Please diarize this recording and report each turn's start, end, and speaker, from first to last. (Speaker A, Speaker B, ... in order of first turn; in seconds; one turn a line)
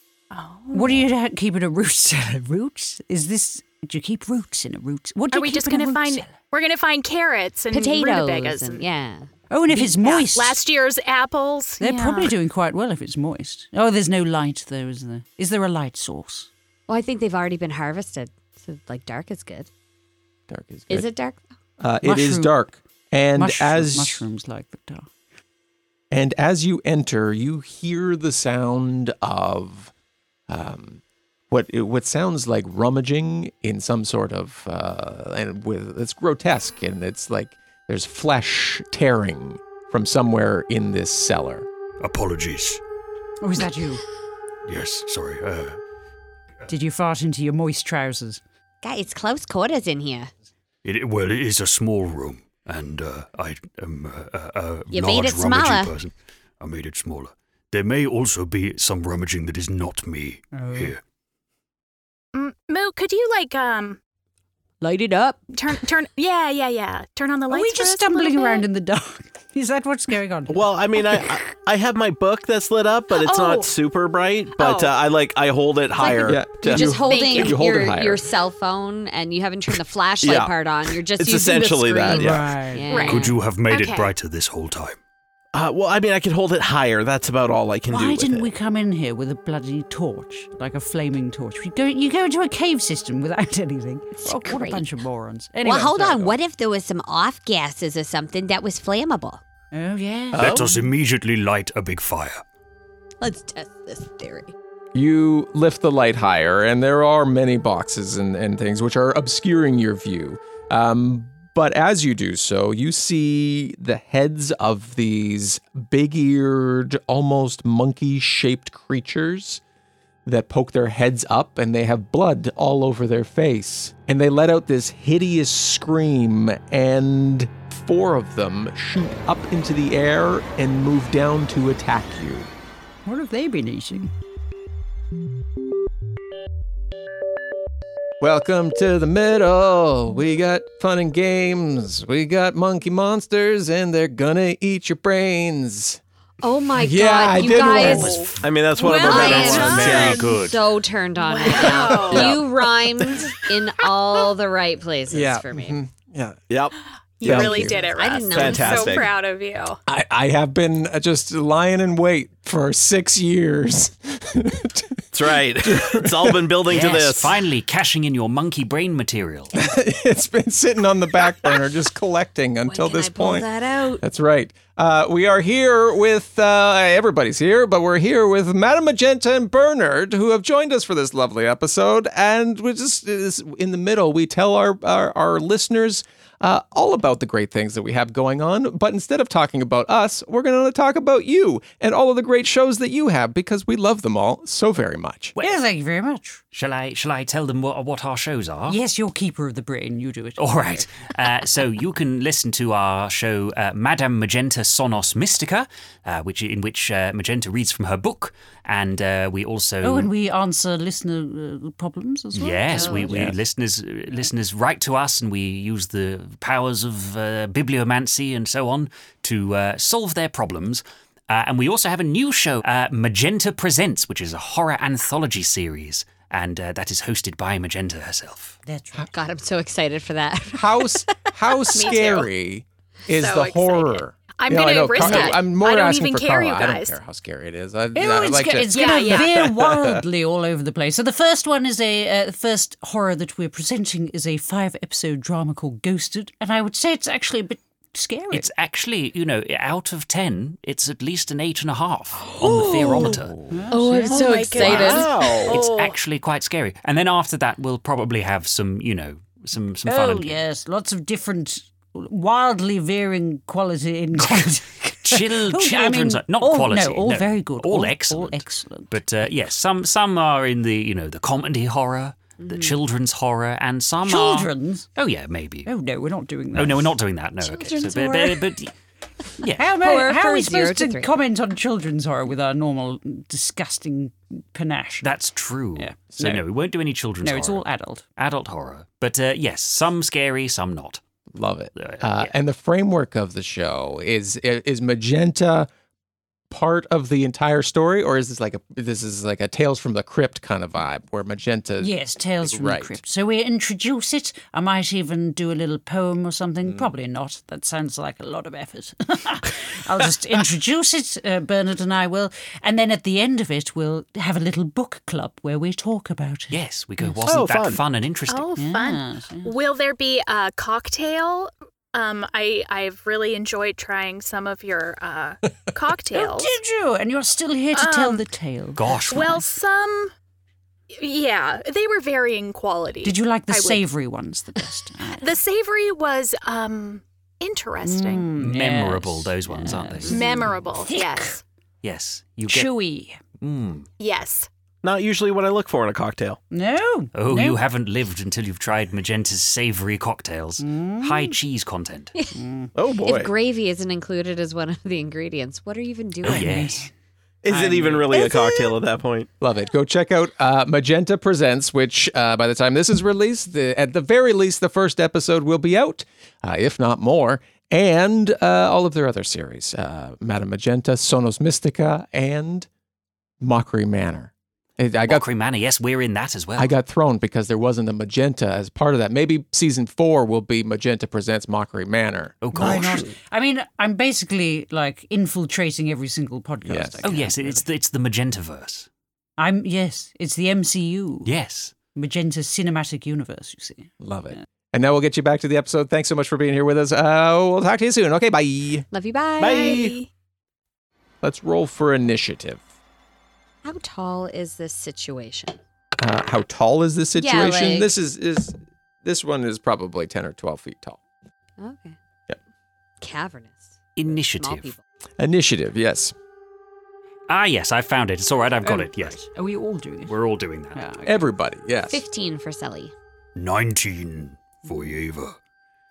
Speaker A: 0.3-1.0
Speaker B: 0.7-6.3
Speaker A: 5.3-8.9
Speaker C: 7.7-9.3
Speaker B: 9.5-10.6
Speaker A: 9.7-12.3
Speaker B: 11.8-16.5
Speaker C: 16.9-19.7
Speaker D: 20.5-21.1
Speaker C: 20.9-21.4
Speaker D: 21.8-24.2
Speaker B: 22.0-22.6
Speaker B: 23.4-25.1
Speaker D: 26.1-29.9
Speaker D: 30.5-41.7
Speaker E: 42.0-42.8
Speaker B: 43.4-44.0
Speaker E: 44.6-45.8
Speaker B: 46.7-48.4
Speaker C: 48.8-50.3
Speaker E: 50.8-61.0
Speaker C: 54.9-55.9
Speaker B: 60.5-60.9
Speaker A: 62.3-64.0
Speaker C: 64.8-65.4
Speaker A: 65.5-68.7
Speaker B: 67.5-70.6
Speaker F: 70.5-76.7
Speaker A: 73.1-73.7
Speaker A: 74.5-75.0
Speaker C: 76.0-83.3
Speaker D: 76.2-78.2
Speaker A: 76.5-77.6
Speaker F: 80.2-80.5
Speaker F: 81.2-82.6
Speaker B: 82.2-82.9
Speaker A: 82.9-84.1
Speaker E: 83.0-85.0
Speaker F: 85.5-88.5
Speaker B: 87.9-96.3
Speaker C: 94.2-94.8
Speaker C: 95.6-99.4
Speaker B: 99.7-100.5
Speaker D: 100.3-100.8
Speaker E: 100.3-102.4
Speaker C: 103.2-104.5
Speaker D: 104.9-119.6
Speaker D: 120.2-132.5
Speaker B: 133.0-134.1
Speaker D: 138.2-146.0
Speaker C: 146.4-148.3
Speaker D: 146.8-148.3
Speaker A: 147.4-150.3
Speaker F: 148.4-150.3
Speaker C: 148.8-155.8
Speaker D: 149.2-150.2
Speaker E: 150.3-150.5
Speaker A: 151.2-152.5
Speaker D: 152.0-152.4
Speaker F: 152.1-152.3
Speaker D: 155.1-156.4
Speaker A: 157.2-159.8
Speaker D: 157.2-157.8
Speaker F: 157.2-157.7
Speaker C: 157.6-159.0
Speaker F: 158.3-159.1
Speaker D: 159.9-166.5
Speaker F: 165.1-167.3
Speaker G: 166.7-169.6
Speaker D: 169.5-173.5
Speaker C: 172.7-174.0
Speaker D: 174.0-195.3
Speaker B: 195.4-196.4
Speaker G: 196.5-198.8
Speaker B: 198.7-200.8
Speaker G: 200.4-210.1
Speaker B: 209.8-213.3
Speaker G: 212.3-228.6
Speaker C: 212.7-213.2
Speaker B: 228.6-229.1
Speaker C: 229.1-232.1
Speaker D: 230.5-238.9
Speaker A: 231.7-232.3
Speaker A: 233.1-237.0
Speaker B: 237.9-248.5
Speaker A: 238.7-239.4
Speaker D: 239.6-239.9
Speaker G: 248.3-253.3
Speaker B: 253.5-254.7
Speaker A: 253.8-256.0
Speaker C: 254.0-255.0
Speaker F: 254.5-255.6
Speaker G: 254.6-254.9
Speaker G: 255.5-260.4
Speaker B: 259.9-268.9
Speaker G: 264.2-275.7
Speaker C: 272.4-272.8
Speaker B: 274.0-274.9
Speaker B: 275.6-276.9
Speaker G: 276.5-278.7
Speaker C: 277.4-277.8
Speaker B: 277.7-278.4
Speaker G: 279.4-279.7
Speaker B: 279.6-285.1
Speaker C: 279.8-281.1
Speaker G: 285.0-287.6
Speaker B: 285.8-286.4
Speaker B: 287.2-288.0
Speaker G: 288.2-291.0
Speaker D: 291.3-295.7
Speaker G: 291.8-292.2
Speaker D: 296.5-303.0
Speaker B: 301.8-317.2
Speaker G: 316.5-318.5
Speaker F: 317.2-317.8
Speaker A: 318.3-326.5
Speaker B: 318.6-319.5
Speaker B: 326.1-328.8
Speaker A: 327.7-328.2
Speaker G: 328.8-329.4
Speaker A: 329.1-330.1
Speaker A: 331.0-333.8
Speaker B: 333.0-335.3
Speaker A: 335.2-338.3
Speaker B: 337.8-341.4
Speaker G: 338.4-340.4
Speaker A: 340.1-341.4
Speaker G: 341.8-342.7
Speaker B: 342.5-343.2
Speaker G: 343.4-343.9
Speaker A: 344.0-344.5
Speaker F: 344.8-346.4
Speaker B: 346.5-347.6
Speaker G: 347.1-352.1
Speaker B: 350.6-351.3
Speaker B: 352.3-352.7
Speaker F: 352.7-353.3
Speaker C: 353.0-356.7
Speaker G: 356.2-356.9
Speaker B: 356.2-356.9
Speaker F: 357.4-359.3
Speaker B: 357.5-358.3
Speaker C: 358.1-358.7
Speaker D: 359.4-372.7
Speaker D: 373.4-375.2
Speaker G: 375.1-376.7
Speaker D: 376.6-382.8
Speaker G: 382.4-383.1
Speaker B: 382.5-387.6
Speaker D: 386.6-387.0
Speaker G: 387.0-388.9
Speaker B: 389.4-391.3
Speaker G: 391.2-391.7
Speaker B: 391.9-394.4
Speaker D: 394.0-398.9
Speaker C: 398.9-399.9
Speaker F: 399.4-399.9
Speaker A: 399.7-400.1
Speaker D: 401.2-402.6
Speaker C: 403.6-405.6
Speaker D: 406.0-411.0
Speaker C: 407.1-407.9
Speaker C: 411.6-412.0
Speaker C: 413.0-414.8
Speaker G: 413.9-414.7
Speaker D: 415.2-416.1
Speaker G: 417.3-419.2
Speaker B: 418.6-420.1
Speaker G: 420.1-420.8
Speaker B: 420.7-421.2
Speaker D: 421.0-422.0
Speaker C: 421.9-422.9
Speaker E: 423.4-425.4